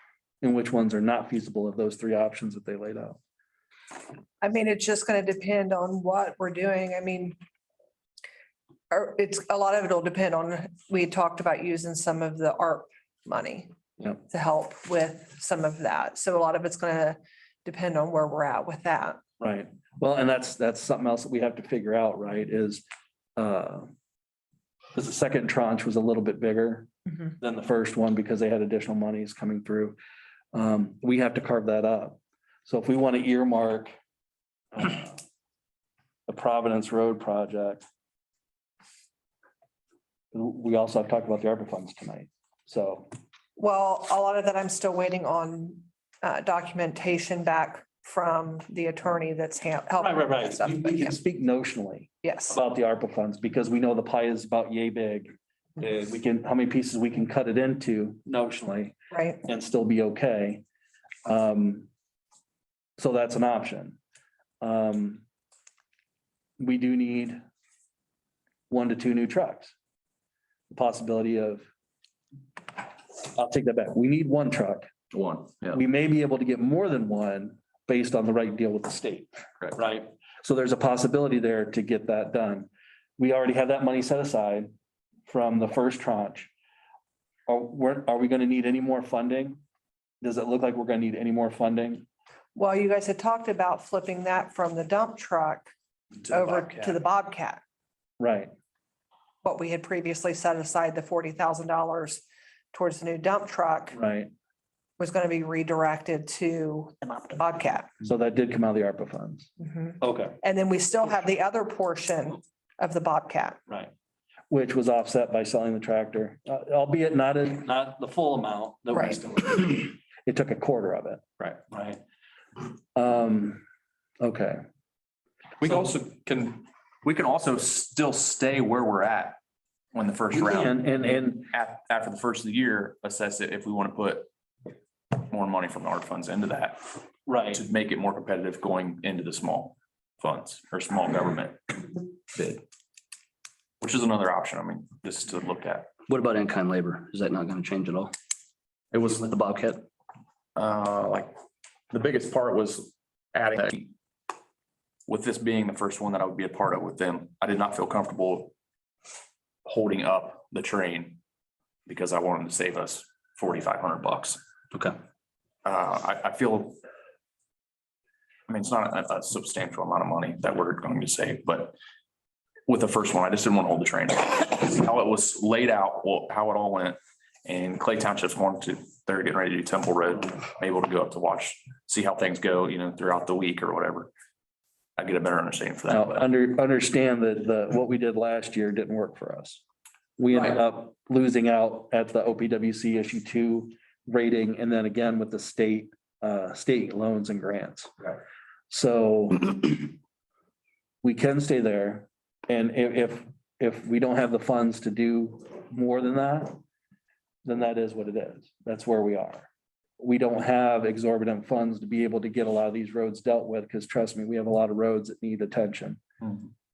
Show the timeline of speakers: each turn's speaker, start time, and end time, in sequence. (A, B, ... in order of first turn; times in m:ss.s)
0:00.4-0:03.2 A
0:04.4-0:07.4 B
0:08.9-0:13.7 B
0:14.3-0:19.2 B
0:19.4-0:22.8 A
0:23.4-0:23.9 A
0:25.0-0:30.0 A
0:30.5-0:33.9 A
0:34.7-0:35.2 A
0:36.3-0:37.8 A
0:40.3-0:43.1 A
0:43.6-0:51.1 B
0:50.0-1:00.6 A
0:52.2-0:52.5 B
1:01.3-1:01.9 A
1:03.0-1:04.0 A
1:04.6-1:05.2 A
1:06.6-1:07.4 A
1:08.7-1:09.7 A
1:10.7-1:11.7 A
1:13.2-1:14.9 A
1:15.1-1:15.8 C
1:15.7-1:24.7 A
1:25.3-1:26.5 A
1:27.5-1:29.6 A
1:30.2-1:32.1 A
1:32.6-1:35.7 B
1:36.3-1:37.6 B
1:38.2-1:38.5 A
1:39.4-1:44.0 B
1:43.9-1:44.3 A
1:45.0-1:47.9 B
1:48.0-1:50.4 A
1:49.6-1:49.9 B
1:50.4-1:53.6 B
1:54.5-2:02.0 A
2:03.0-2:03.6 A
2:04.2-2:04.6 A
2:05.6-2:09.4 C
2:09.9-2:14.3 C
2:10.3-2:11.5 A
2:15.1-2:16.9 C
2:17.3-2:17.6 A
2:17.5-2:22.6 C
2:23.8-2:25.9 C
2:26.1-2:28.1 D
2:28.9-2:29.2 C
2:29.1-2:29.9 D
2:30.6-2:31.4 C
2:31.9-2:33.9 C
2:35.1-2:38.5 C
2:39.6-2:41.2 C
2:41.9-2:44.4 C
2:45.6-2:46.8 C
2:48.5-2:51.8 C
2:52.7-3:04.1 C
3:05.0-3:06.3 C
3:05.9-3:09.6 A
3:10.2-3:18.1 A
3:18.7-3:20.0 A
3:21.0-3:26.6 A
3:27.4-3:29.5 A
3:30.0-3:36.0 A